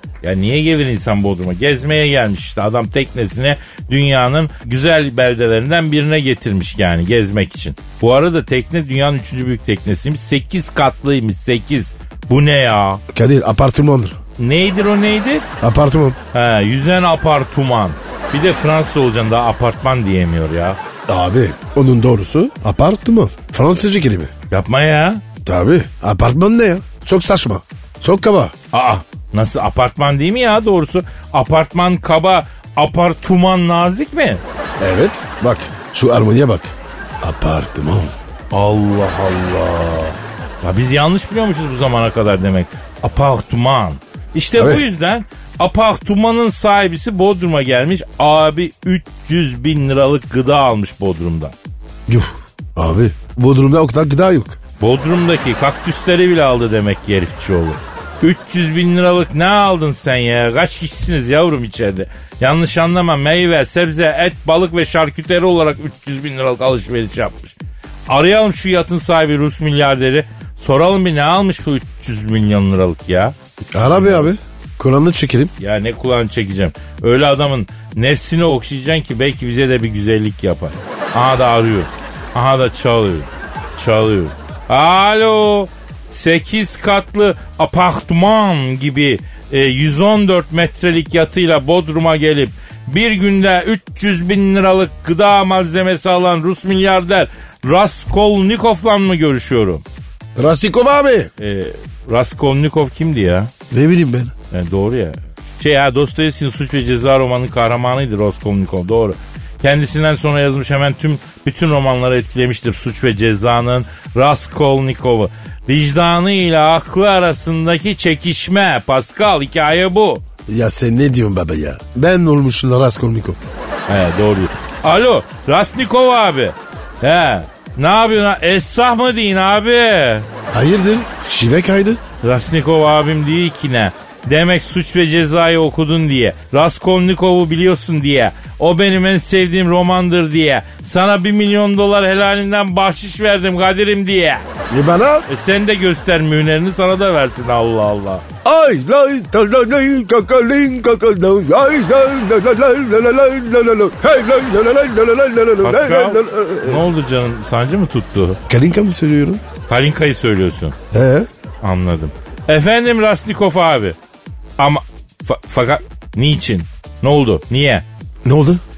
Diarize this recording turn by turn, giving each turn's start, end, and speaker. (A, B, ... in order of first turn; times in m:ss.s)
0:00.2-0:13.0 A
0:13.1-0:14.2 B
0:14.4-0:15.4 A
0:15.6-0:16.2 B
0:16.3-0:20.8 A
0:21.1-0:24.3 B
0:24.5-0:25.2 A
0:25.4-0:28.5 B
0:28.7-0:34.4 A
0:34.8-0:38.1 B
0:38.5-0:51.5 A
0:44.6-0:44.8 B
0:52.1-0:54.6 B
0:54.8-1:07.6 A
1:08.1-1:14.3 A
1:13.7-1:15.5 B
1:15.6-1:39.8 A
1:40.4-1:41.3 B
1:41.4-1:43.5 A
1:43.7-1:44.3 B
1:44.5-2:00.2 A
2:00.5-2:03.4 B
2:03.9-2:10.3 A
2:10.5-2:12.0 B
2:12.2-2:24.4 A
2:24.7-2:25.2 B
2:25.3-2:28.2 A
2:28.4-2:36.9 B
2:35.6-2:38.4 A
2:38.5-2:39.4 B
2:39.7-2:40.8 A
2:40.9-2:41.3 B
2:41.6-2:44.0 A
2:44.6-2:47.8 A
2:48.2-2:48.6 B